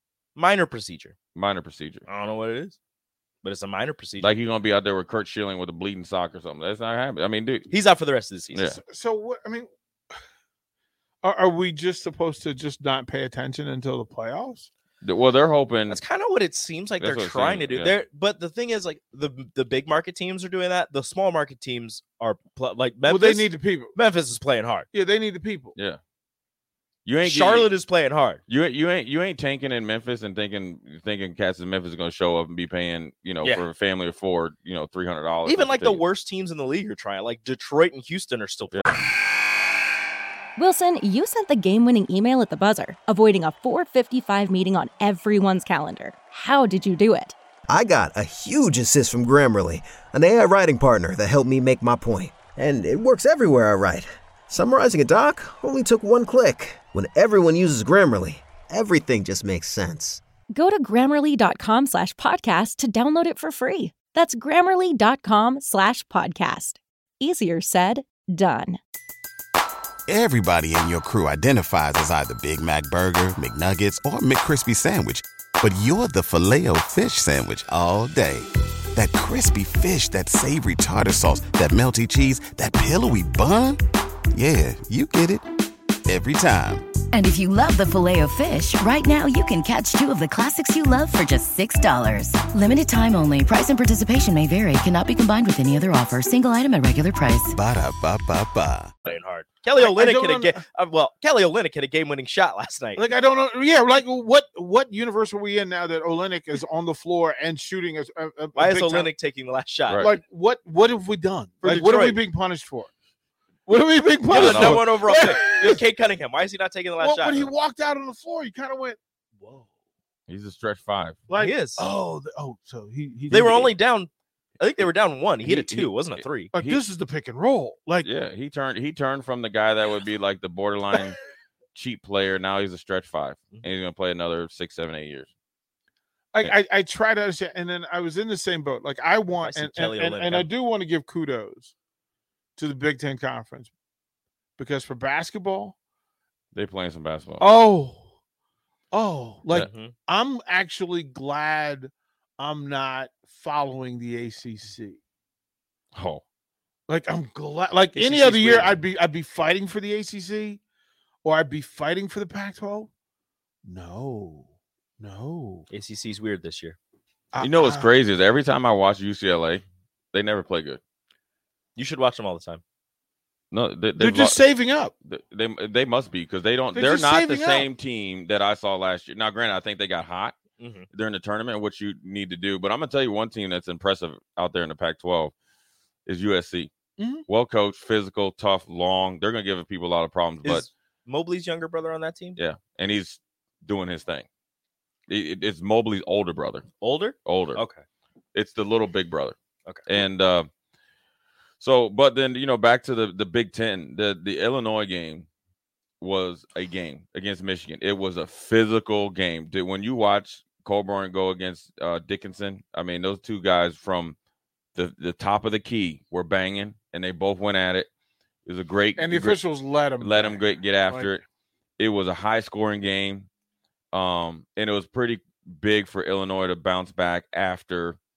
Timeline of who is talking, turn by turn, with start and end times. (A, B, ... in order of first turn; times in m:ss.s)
0:00.4-0:01.2 A
0:01.3-0:02.1 B
0:02.1-0:02.8 A
0:03.4-0:04.4 A
0:04.2-0:07.7 B
0:07.7-0:08.6 A
0:08.5-0:08.8 B
0:08.7-0:09.7 C
0:11.2-0:14.7 C
0:15.0-0:16.0 B
0:15.9-0:24.9 A
0:17.0-0:18.0 B
0:23.0-0:24.0 C
0:24.9-0:25.8 C
0:25.8-0:26.0 B
0:27.0-0:27.7 B
0:27.2-0:28.4 A
0:28.5-0:36.0 B
0:35.5-0:38.8 A
0:40.6-0:47.4 D
0:47.7-1:00.2 E
1:00.5-1:08.8 D
1:10.1-1:23.8 F
1:24.3-1:25.4 F
1:26.1-1:26.9 F
1:27.1-1:37.6 G
1:37.5-1:38.9 F
1:39.0-1:43.1 A
1:39.7-1:40.6 C
1:43.0-1:49.1 C
1:48.6-1:50.0 A
1:50.0-1:52.9 C
1:51.6-1:52.2 A
1:53.7-1:55.8 C
1:54.3-1:57.5 A
1:54.3-1:54.8 B
1:57.0-1:59.7 C
2:00.3-2:01.3 B
2:01.3-2:03.8 C
2:01.3-2:01.9 A
2:03.3-2:06.7 A
2:05.4-2:06.8 B
2:06.5-2:08.1 C
2:08.0-2:11.2 B
2:11.7-2:15.3 B
2:16.3-2:21.7 C
2:19.4-2:20.5 A
2:22.6-2:23.7 C
2:24.6-2:25.8 C
2:26.5-2:27.5 B
2:27.4-2:28.0 C
2:28.9-2:35.0 C
2:29.6-2:30.0 A
2:35.9-2:36.2 B
2:36.9-2:40.6 C
2:37.9-2:38.8 A
2:41.2-2:42.9 C
2:43.6-2:45.7 C
2:45.7-2:46.8 A
2:47.3-2:47.9 C
2:47.4-2:50.8 B
2:51.8-2:52.6 A
2:53.5-2:54.4 B
2:54.0-2:54.9 C
2:55.0-3:00.4 B
2:56.7-2:57.7 C
3:00.6-3:00.9 A
3:00.9-3:05.3 B
3:06.1-3:06.7 B
3:07.0-3:07.2 C
3:07.3-3:10.7 B
3:10.4-3:12.4 A
3:12.4-3:14.3 B
3:15.1-3:16.7 B
3:16.8-3:17.8 A
3:17.2-3:17.6 B
3:18.4-3:20.5 B
3:19.7-3:20.0 A
3:21.6-3:25.3 B
3:26.0-3:34.2 B
3:34.8-3:37.9 B
3:38.5-3:39.4 B
3:39.0-3:41.2 C
3:40.0-3:41.2 B
3:41.8-3:43.3 B
3:43.9-3:48.0 B